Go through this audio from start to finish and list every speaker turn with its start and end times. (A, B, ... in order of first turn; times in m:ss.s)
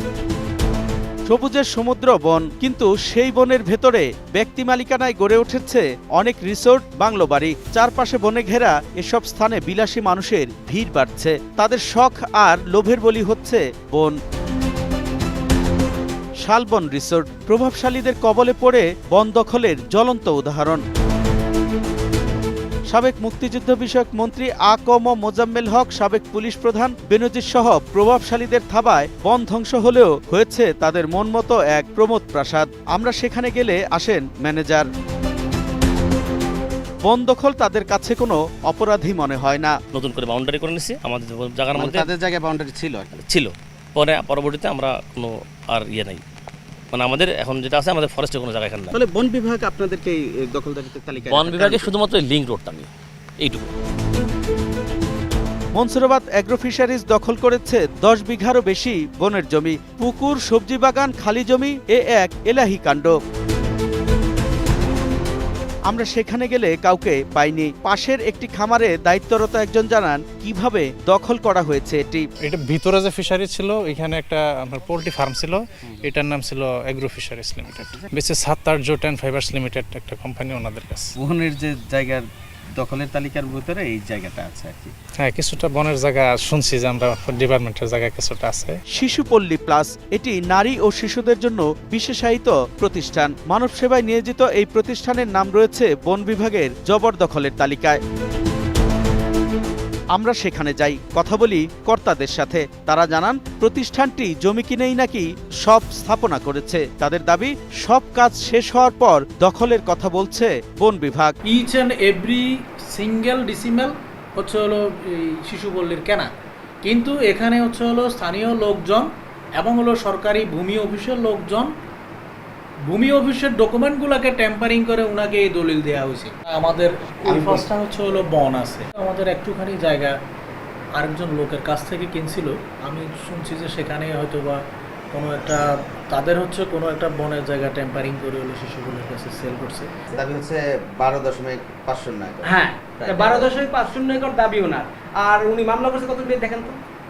0:01.3-0:14.2 A
0:16.4-0:20.8 A
0:22.9-0:34.8 A
0:37.0-0:39.7 A
0:39.9-0:42.1 B
0:41.7-0:43.1 C
0:43.2-0:46.2 B
0:46.9-0:48.9 B
0:48.9-0:51.9 C
0:51.3-0:52.9 B
0:53.4-0:53.7 B
0:55.8-1:03.2 A
1:05.9-1:12.2 A
1:12.4-1:21.1 D
1:21.2-1:22.2 C
1:22.8-1:24.9 C
1:25.2-1:28.8 D
1:29.0-1:38.0 A
1:40.1-1:51.4 A
1:51.5-1:56.3 E
1:56.8-1:59.1 E
1:59.6-2:01.7 E
2:02.9-2:10.1 E
2:07.3-2:07.6 C
2:11.0-2:14.6 E
2:15.1-2:19.9 E
2:20.1-2:23.5 C
2:22.4-2:26.8 F